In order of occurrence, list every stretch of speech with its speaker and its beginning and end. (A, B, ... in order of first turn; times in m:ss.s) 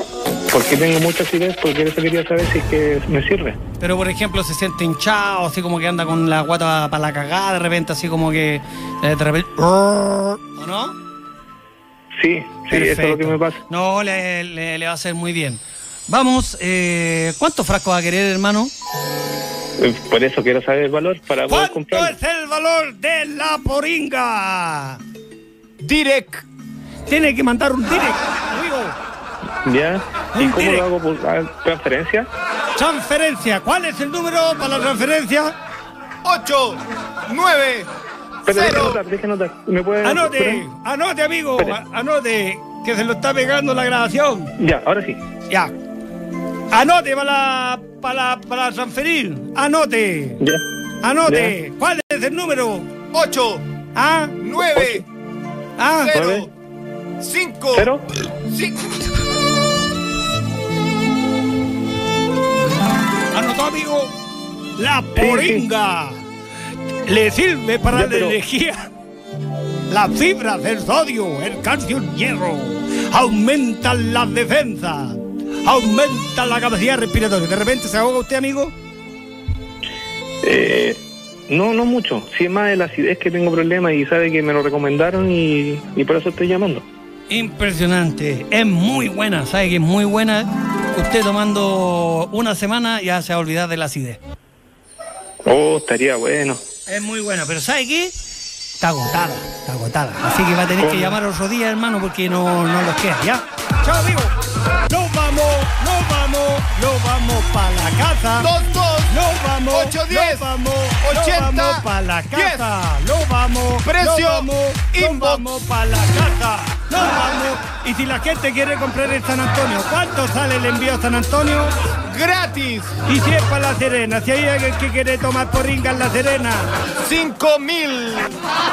0:00.5-0:03.6 A
0:03.8-0:11.0 B
0:12.2-0:13.6 A
0:12.7-0:18.7 B
0:19.8-0:22.2 A
0:21.5-0:25.0 B
0:25.8-0:26.4 C
0:27.1-0:28.9 B
0:29.6-0:32.3 A
0:30.3-0:30.9 B
0:32.8-0:35.6 B
0:36.2-0:37.9 C
0:38.4-0:40.6 A
0:38.5-0:39.0 C
0:40.0-0:44.5 B
0:44.6-0:45.2 A
0:46.7-0:50.4 B
0:51.0-0:52.9 B
0:51.2-0:51.6 A
0:53.1-0:53.6 C
0:53.9-0:54.4 B
0:54.4-0:55.0 C
0:54.8-0:55.0 A
0:55.8-0:56.1 B
0:56.0-0:56.5 C
0:56.1-0:56.5 A
0:57.2-0:57.9 C
0:57.8-0:58.1 A
0:58.5-0:58.8 C
1:03.3-1:04.1 B
1:04.8-1:06.2 B
1:05.1-1:05.6 A
1:07.0-1:08.9 B
1:07.9-1:08.4 A
1:09.9-1:18.7 B
1:20.4-1:26.8 A
1:27.3-1:34.2 B
1:35.4-1:36.6 A
1:36.9-1:38.1 B
1:38.8-1:44.3 B
1:40.7-1:41.2 A
1:44.9-1:48.5 B
1:48.4-1:49.1 C
1:49.1-2:01.8 B
1:49.7-1:50.5 C
1:51.0-1:51.8 C
1:52.4-1:52.7 C
1:53.8-1:55.5 C
2:02.1-2:03.0 C
2:03.1-2:06.7 B
2:07.0-2:08.4 C